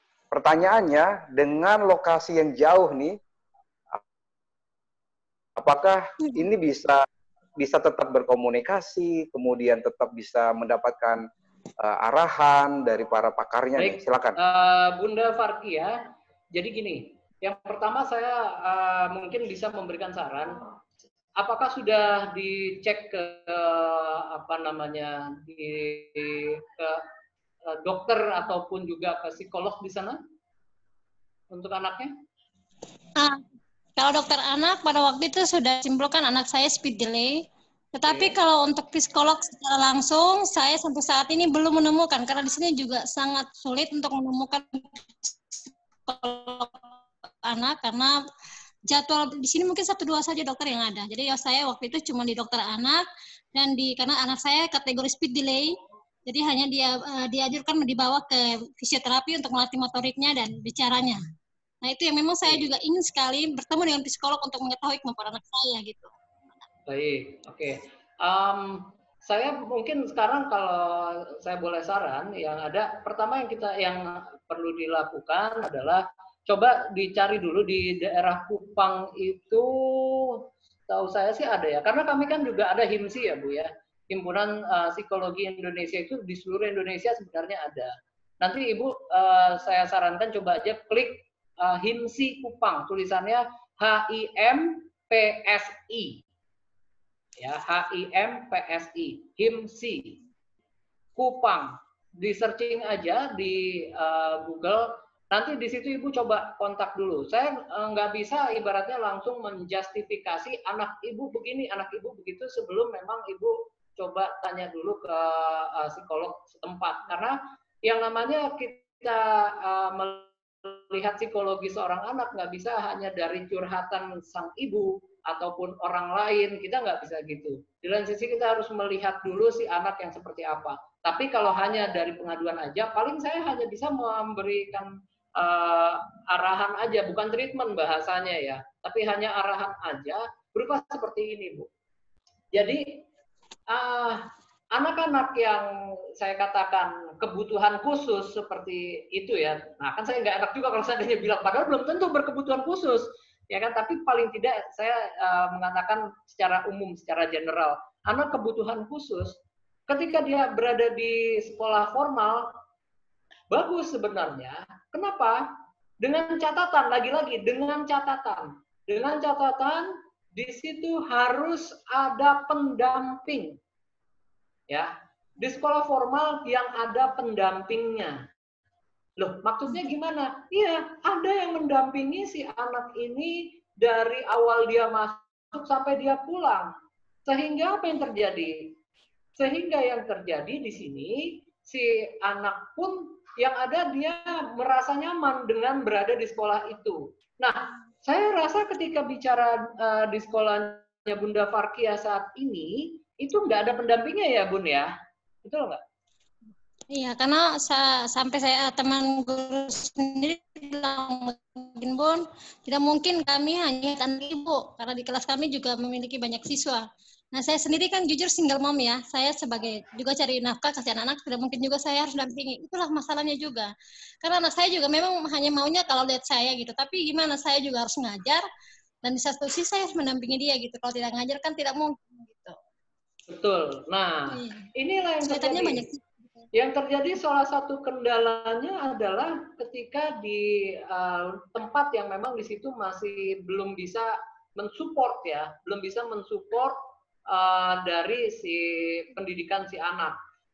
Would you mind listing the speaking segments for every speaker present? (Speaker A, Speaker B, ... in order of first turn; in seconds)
Speaker A: 0.3-3.2, 5.6-7.0, 7.6-11.2, 11.8-14.4
Speaker B: 13.8-16.0, 16.5-20.7, 21.4-27.0, 27.7-30.2, 31.5-32.1, 38.0-38.3, 66.9-96.2, 97.4-100.2, 101.2-141.7, 142.5-143.0, 143.7-162.5, 163.5-165.5, 166.0-173.6, 174.7-178.3, 179.2-186.7, 187.3-188.7, 189.4-204.9, 205.4-205.8, 233.3-235.8, 236.5-250.2
Speaker C: 33.2-33.4, 34.0-46.9, 47.4-48.1, 48.9-53.0, 53.5-55.7, 56.2-61.2, 61.8-66.1, 206.9-223.7, 224.2-228.4, 229.0-232.6, 234.3-234.7, 235.2-236.1